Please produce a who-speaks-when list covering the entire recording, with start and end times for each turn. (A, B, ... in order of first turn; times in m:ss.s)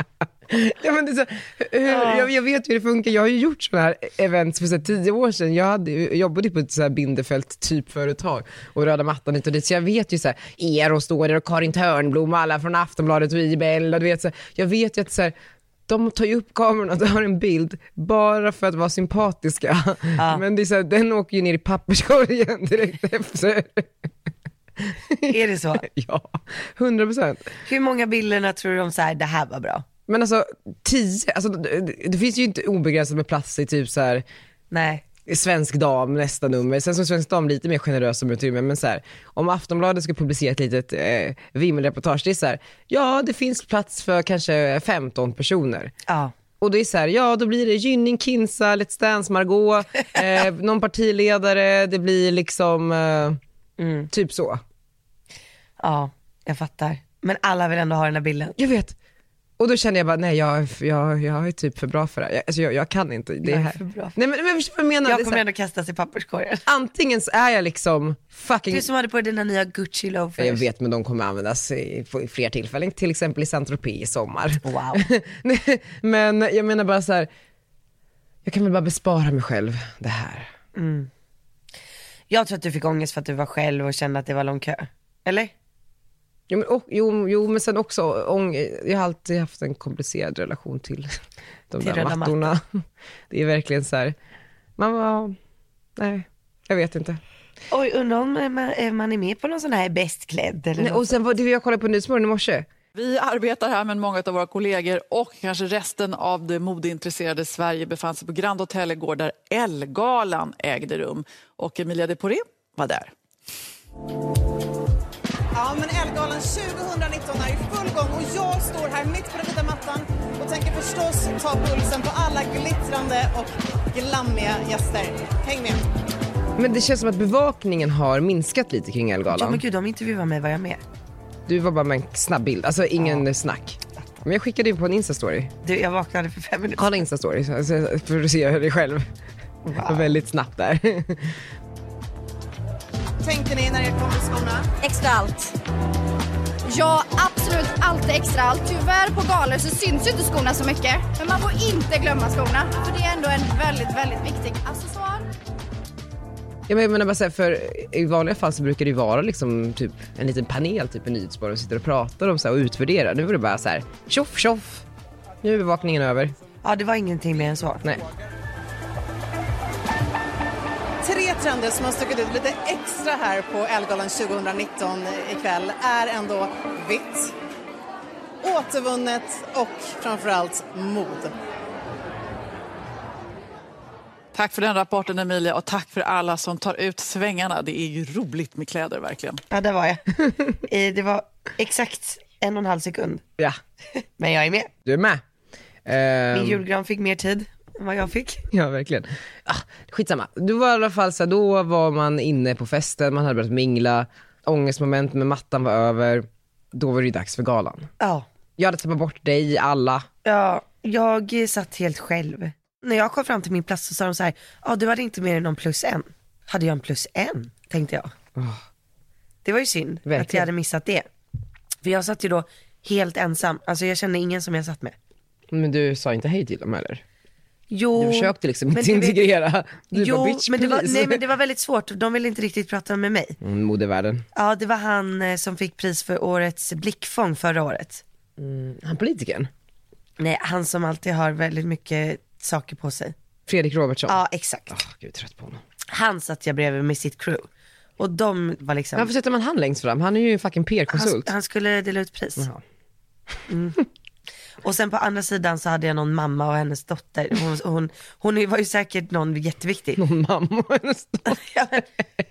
0:00.5-0:15.3 A
0:01.8-0:02.3 B
0:15.9-0:23.9 A
0:20.2-0:20.4 B
0:24.8-0:27.5 A
0:25.3-0:25.8 B
0:27.6-0:29.8 B
0:30.1-0:34.2 A
0:34.7-0:35.0 B
0:35.3-0:45.9 A
0:46.1-0:46.3 B
0:46.6-0:53.4 A
0:53.8-0:54.1 B
0:54.1-0:54.6 A
0:55.8-0:58.5 B
0:58.6-0:59.0 A
0:59.6-1:05.4 A
1:03.4-1:04.2 B
1:05.0-1:06.6 B
1:06.6-1:08.8 A
1:08.7-1:10.6 B
1:10.4-1:17.3 A
1:14.6-1:15.0 B
1:18.4-1:20.5 A
1:20.8-1:21.1 B
1:22.3-1:25.5 B
1:26.5-1:31.1 A
1:31.7-1:34.1 A
1:31.8-1:32.5 B
1:34.8-1:35.4 A
1:36.0-1:37.2 A
1:37.7-1:41.1 B
1:40.8-1:42.7 A
1:43.0-1:53.1 C
1:55.5-2:05.8 D
2:06.6-2:09.6 A
2:09.3-2:10.8 B
2:11.5-2:15.5 A
2:13.0-2:13.2 B
2:15.6-2:17.0 B
2:16.8-2:19.1 A
2:19.6-2:20.1 B
2:19.8-2:21.4 A
2:23.2-2:24.8 D
2:26.7-2:35.3 E
2:36.7-2:44.8 A
2:45.4-2:46.3 A
2:46.6-2:47.8 B
2:51.0-2:57.3 D
2:58.4-3:01.4 D
3:04.3-3:09.4 C
3:09.5-3:13.2 B
3:14.2-3:14.7 B
3:14.9-3:15.2 A
3:15.8-3:16.6 A
3:16.3-3:18.4 B
3:18.5-3:27.9 A
3:28.0-3:28.3 B
3:28.6-3:30.1 A
3:30.2-3:38.1 B
3:38.4-3:38.6 A
3:39.4-3:41.1 B
3:40.1-3:40.5 A
3:41.8-3:45.0 B
3:45.5-3:47.0 A
3:47.7-3:49.2 B
3:48.0-3:51.2 A
3:49.9-3:53.4 B
3:53.4-3:54.2 A
3:54.4-3:58.0 B
3:58.4-3:59.5 A
4:00.2-4:03.1 B
4:03.5-4:04.2 A
4:04.1-4:04.7 B
4:04.7-4:05.6 A
4:05.9-4:07.5 B
4:08.0-4:09.1 B
4:09.0-4:11.3 A
4:10.9-4:12.5 B
4:13.5-4:13.8 B
4:14.6-4:20.0 B
4:20.0-4:21.4 A
4:21.2-4:21.8 B